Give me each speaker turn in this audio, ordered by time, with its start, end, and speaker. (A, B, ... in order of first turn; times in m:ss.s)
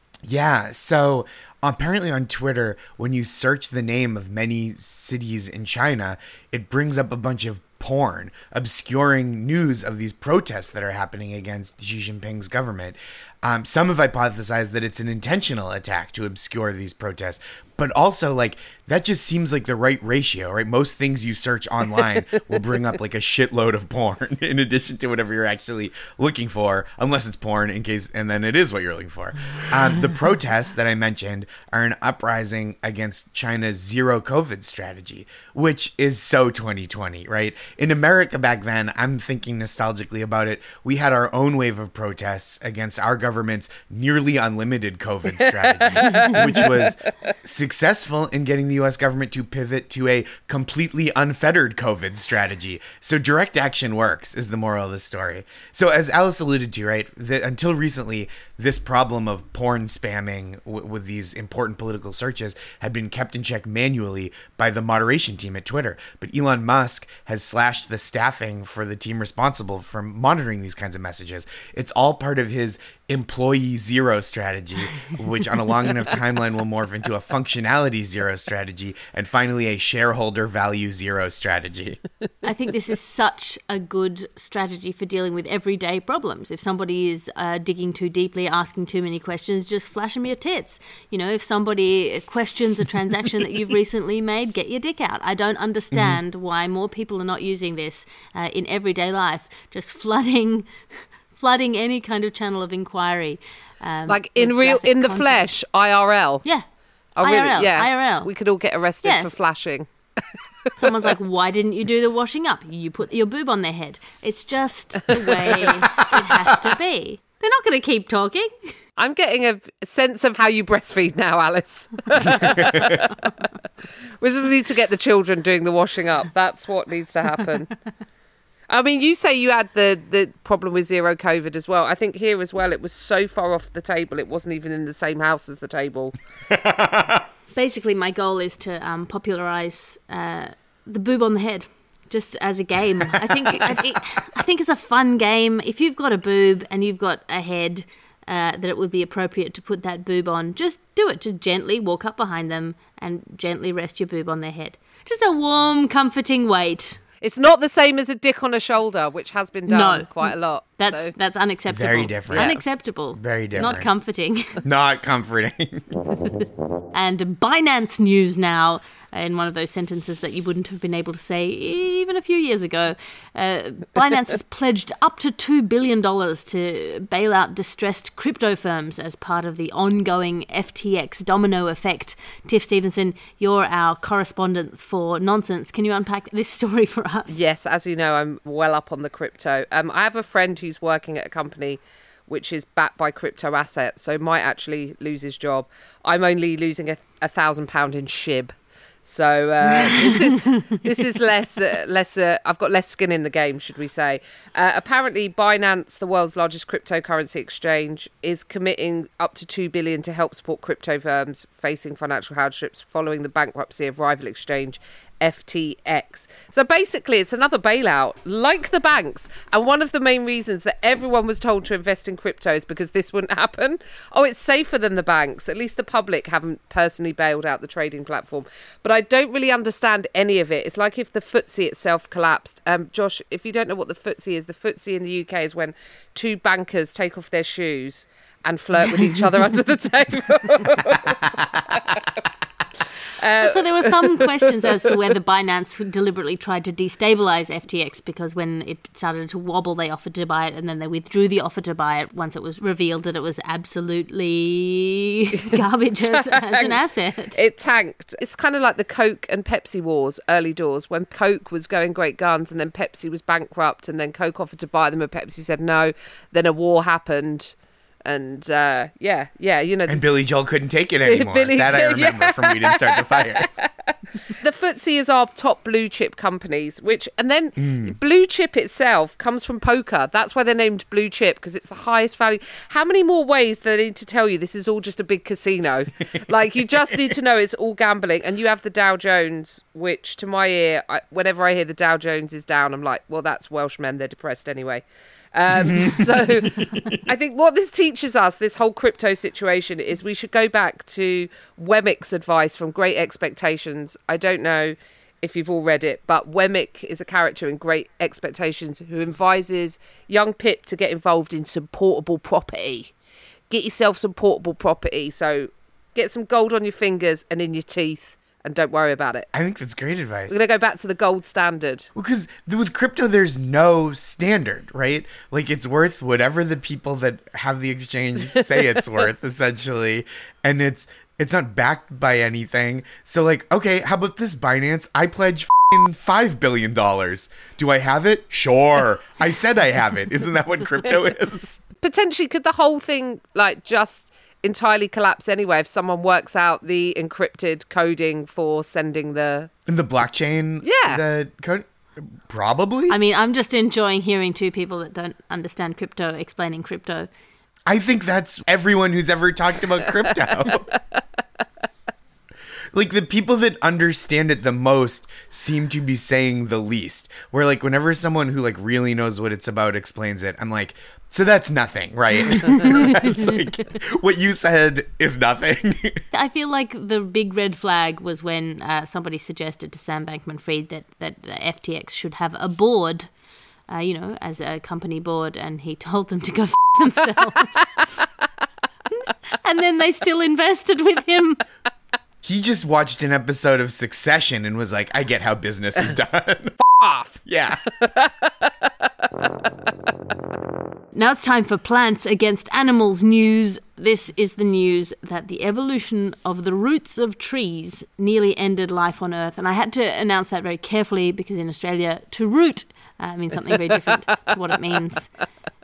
0:00.2-1:22.0 A
0:46.0-0:46.7 B
1:22.4-1:45.5 C
1:35.9-1:36.2 A
1:44.1-1:46.4 B
1:47.2-1:49.9 B
1:47.2-1:48.3 C
1:49.0-1:49.3 C
1:50.8-1:58.7 C
1:55.4-1:55.7 B
1:59.0-2:03.1 B
2:04.2-2:07.7 B
2:08.7-2:16.2 B
2:16.6-2:17.2 A
2:17.5-2:37.0 C
2:37.2-2:41.1 B
2:39.7-2:44.6 C
2:41.7-2:42.6 A
2:42.3-2:42.6 B
2:43.1-2:43.9 A
2:44.6-2:46.0 A
2:46.9-3:07.4 C
3:07.3-3:18.5 B
3:19.0-4:02.0 B
4:03.2-4:04.4 B
4:03.4-4:17.4 C
4:16.0-4:16.8 B
4:17.3-4:30.1 B
4:29.9-4:33.5 A
4:31.0-4:33.7 B
4:34.4-5:12.9 B
4:37.6-4:38.0 A
4:55.6-4:57.0 A
5:13.5-5:19.3 B
5:19.3-5:20.4 A
5:20.3-5:21.9 B
5:22.0-5:41.6 A
5:41.8-5:49.5 B
5:49.7-5:53.0 A
5:50.6-5:51.0 B
5:52.9-5:57.1 C
5:57.7-6:00.7 A
6:02.7-6:16.0 A
6:16.1-6:23.1 C
6:23.7-6:27.7 C
6:29.4-6:31.4 C
6:32.2-6:36.6 A
6:36.6-6:37.2 B
6:37.2-6:37.6 A
6:37.8-6:38.5 B
6:40.9-6:55.1 C